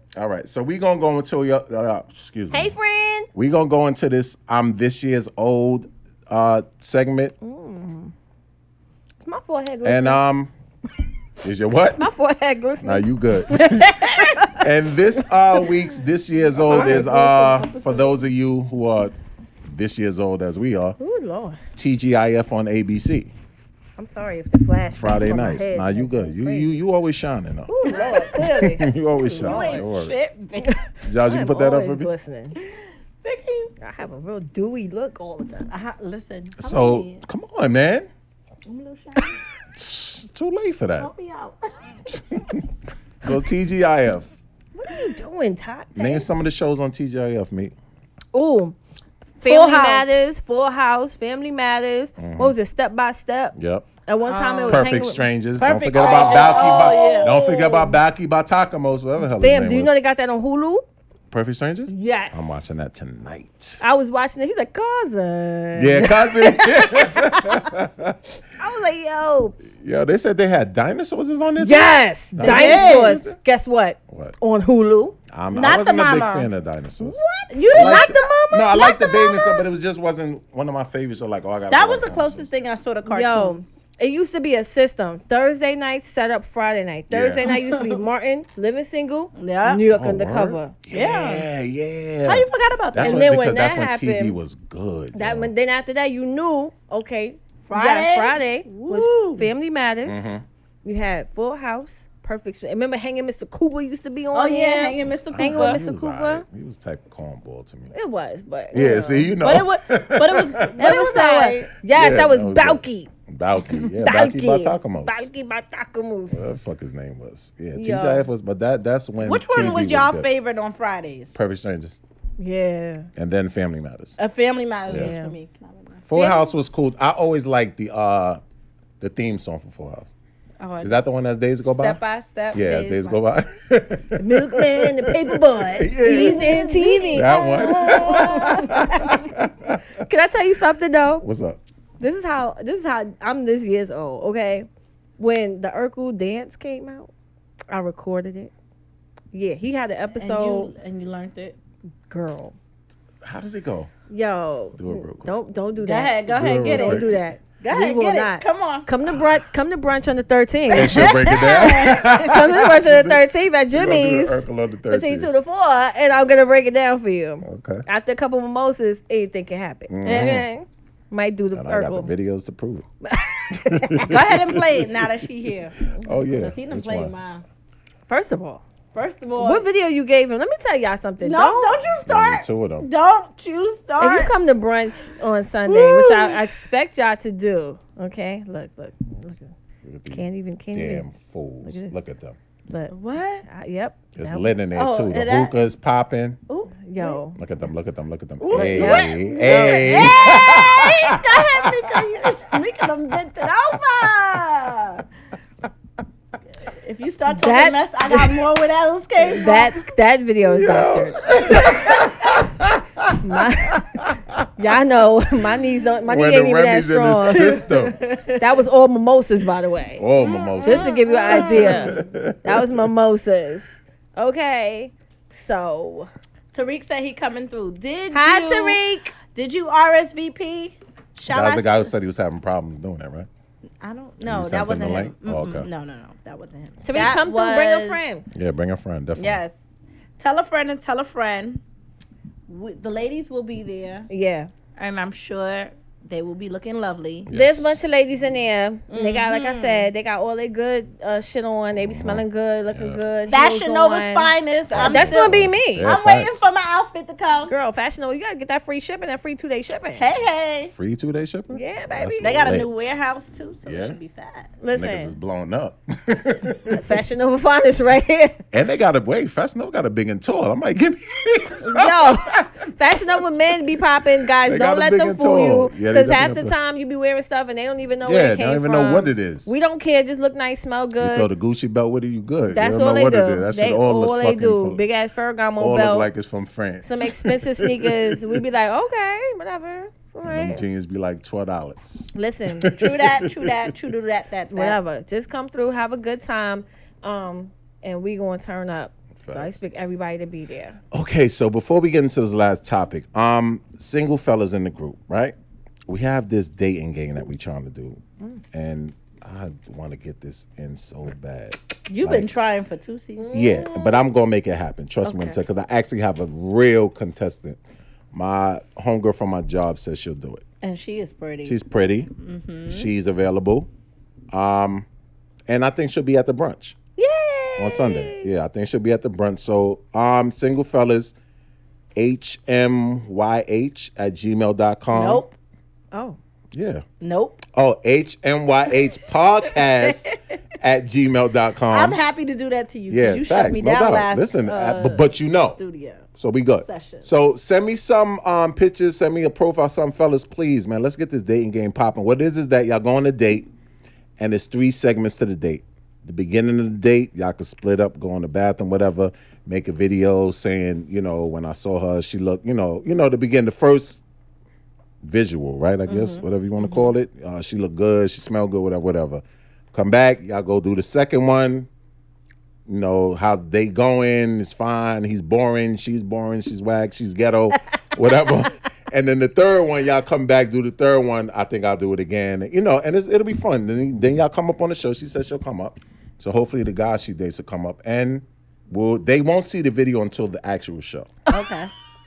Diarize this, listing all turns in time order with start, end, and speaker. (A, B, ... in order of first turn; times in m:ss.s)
0:00.1-0:02.7 A
0:02.5-0:03.3 B
0:03.3-0:07.3 A
0:07.4-0:08.1 B
0:09.2-0:10.2 B
0:09.8-0:10.5 A
0:11.4-0:12.1 A
0:12.0-0:14.7 B
0:12.8-0:19.2 A
0:16.6-0:17.6 B
0:16.7-0:18.1 C
0:19.7-0:21.0 A
0:21.0-0:21.6 B
0:21.8-0:23.3 A
0:24.0-0:26.7 B
0:25.0-0:30.1 A
0:27.7-0:32.6 B
0:27.8-0:28.6 C
0:29.4-0:30.7 C
0:31.0-0:32.1 A
0:33.2-0:33.7 C
0:33.8-0:35.7 B
0:35.7-0:37.2 C
0:36.6-0:38.1 A
0:38.7-0:39.4 C
0:39.7-0:41.1 A
0:41.0-0:41.7 C
0:42.1-0:42.6 A
0:43.2-0:44.4 A
0:44.7-0:46.3 B
0:46.0-0:47.7 A
0:48.3-0:48.8 B
0:49.4-0:55.3 B
0:49.4-0:50.1 C
0:52.2-0:52.6 A
0:53.6-0:53.9 A
0:54.2-0:55.0 C
0:54.7-0:59.9 A
0:55.6-0:57.4 C
0:56.0-0:57.9 B
0:59.4-1:00.8 B
1:01.3-1:03.8 A
1:01.9-1:02.6 B
1:03.8-1:07.6 B
1:05.8-1:08.2 A
1:08.6-1:09.6 B
1:09.7-1:13.4 A
1:11.6-1:15.2 B
1:12.4-1:13.2 C
1:14.1-1:14.4 A
1:15.3-1:17.2 A
1:15.5-1:16.5 C
1:17.0-1:19.6 B
1:17.5-1:18.8 C
1:17.7-1:22.5 A
1:21.7-1:23.6 C
1:23.1-1:30.8 B
1:27.1-1:27.5 A
1:27.4-1:28.0 C
1:29.4-1:29.9 C
1:29.9-1:35.5 A
1:30.9-1:31.5 C
1:32.3-1:33.4 C
1:33.0-1:34.4 B
1:35.1-1:46.4 B
1:37.7-1:39.5 C
1:40.1-1:40.4 A
1:44.3-1:45.8 C
1:45.1-1:47.9 A
1:47.9-1:49.4 B
1:48.7-1:50.7 A
1:48.8-1:51.7 C
1:50.8-1:53.1 B
1:51.9-1:55.3 A
1:53.9-1:56.5 B
1:56.3-2:00.3 A
1:57.7-1:58.3 B
1:59.2-2:01.3 C
2:01.3-2:02.0 A
2:02.4-2:03.1 B
2:03.2-2:04.2 A
2:04.2-2:06.4 C
2:04.9-2:05.1 A
2:04.9-2:05.4 B
2:06.1-2:08.4 A
2:06.1-2:06.5 B
2:09.0-2:10.1 A
2:10.6-2:11.0 C
2:10.8-2:12.0 A
2:11.6-2:13.2 C
2:12.5-2:19.9 A
2:14.2-2:19.2 B
2:16.0-2:18.7 C
2:20.0-2:21.2 B
2:21.2-2:21.6 A
2:22.0-2:24.7 B
2:25.2-2:27.1 B
2:27.7-2:28.5 B
2:29.3-2:30.7 B
2:30.2-2:31.6 C
2:32.1-2:32.6 B
2:33.2-2:33.9 A
2:34.1-2:52.1 B
2:34.8-2:35.3 A
2:35.8-2:38.9 C
2:36.3-2:37.1 A
2:40.7-2:45.3 A
2:40.7-2:42.3 C
2:47.4-2:47.8 A
2:49.9-2:50.5 A
2:50.0-2:50.4 C
2:51.5-2:52.9 A
2:53.0-2:54.1 B
2:53.5-2:55.0 A
2:54.0-2:55.8 C
2:56.0-2:57.1 A
2:56.4-2:57.4 C
2:58.1-2:58.6 B
2:58.9-2:59.6 C
2:59.4-3:01.8 B
3:01.2-3:04.3 C
3:02.0-3:02.9 A
3:04.0-3:09.5 B
3:05.7-3:06.4 C
3:09.8-3:12.4 A
3:10.1-3:11.0 B
3:11.6-3:11.9 B
3:12.7-3:14.5 B
3:13.0-3:13.4 C
3:14.2-3:16.4 A
3:14.8-3:15.6 C
3:16.5-3:17.2 C
3:16.8-3:17.4 B
3:17.4-3:21.7 A
3:18.4-3:25.0 C
3:18.5-3:20.4 B
3:26.6-3:29.8 C
3:27.3-3:28.4 B
3:29.3-3:31.8 B
3:30.5-3:34.5 A
3:31.5-3:32.0 C
3:33.2-3:40.0 B
3:36.0-3:38.0 A
3:37.3-3:38.5 C
3:40.0-3:42.9 A
3:40.2-3:42.0 C
3:40.6-3:46.1 B
3:46.5-3:51.9 C
3:48.1-3:49.2 B
3:51.3-3:53.3 A
3:53.8-3:58.1 C
3:54.2-3:55.7 A
3:56.8-3:58.2 B
3:58.3-3:59.4 A
3:59.2-3:59.6 C
4:00.2-4:01.6 C
4:02.5-4:04.1 C
4:04.1-4:04.5 B
4:04.8-4:07.3 C
4:07.3-4:07.8 A
4:07.3-4:15.9 B
4:08.9-4:09.9 C
4:11.8-4:13.0 A
4:13.3-4:17.5 C
4:14.7-4:16.4 A
4:17.5-4:20.0 B
4:20.0-4:20.7 C
4:20.7-4:23.0 A
4:21.5-4:22.6 B
4:22.2-4:24.5 C
4:23.7-4:24.0 A
4:24.6-4:25.1 B
4:24.7-4:26.9 A
4:26.7-4:28.4 B
4:28.5-4:33.5 A
4:31.6-4:41.3 B
4:34.4-4:36.6 A
4:38.0-4:39.6 A
4:41.0-4:44.8 A
4:42.5-4:46.1 B
4:45.6-4:48.4 A
4:46.8-4:50.6 B
4:50.2-4:53.7 A
4:52.1-4:52.7 B
4:52.8-4:54.8 C
4:54.5-5:00.8 B
4:59.2-4:59.6 A
5:00.9-5:05.4 A
5:05.9-5:08.0 A
5:08.5-5:12.3 A
5:11.9-5:13.3 C
5:13.2-5:14.0 B
5:13.3-5:17.6 A
5:15.0-5:15.3 B
5:18.1-5:20.4 A
5:20.6-5:21.6 C
5:21.4-5:22.1 A
5:22.2-5:22.9 C
5:22.7-5:23.7 A
5:24.3-5:24.9 A
5:25.5-5:26.8 A
5:27.0-5:28.3 B
5:27.6-5:31.1 A
5:32.0-5:35.2 A
5:34.9-5:35.4 C
5:35.9-5:36.2 B
5:36.5-5:36.8 A
5:37.0-5:37.4 C
5:37.6-5:42.0 A
5:39.8-5:40.1 C
5:41.7-5:46.0 C
5:42.9-5:45.6 A
5:46.1-5:53.5 A
5:46.6-5:47.1 C
5:54.2-6:04.0 A
6:05.0-6:11.7 A
6:05.9-6:06.9 C
6:12.7-6:31.2 A
6:31.3-6:31.7 C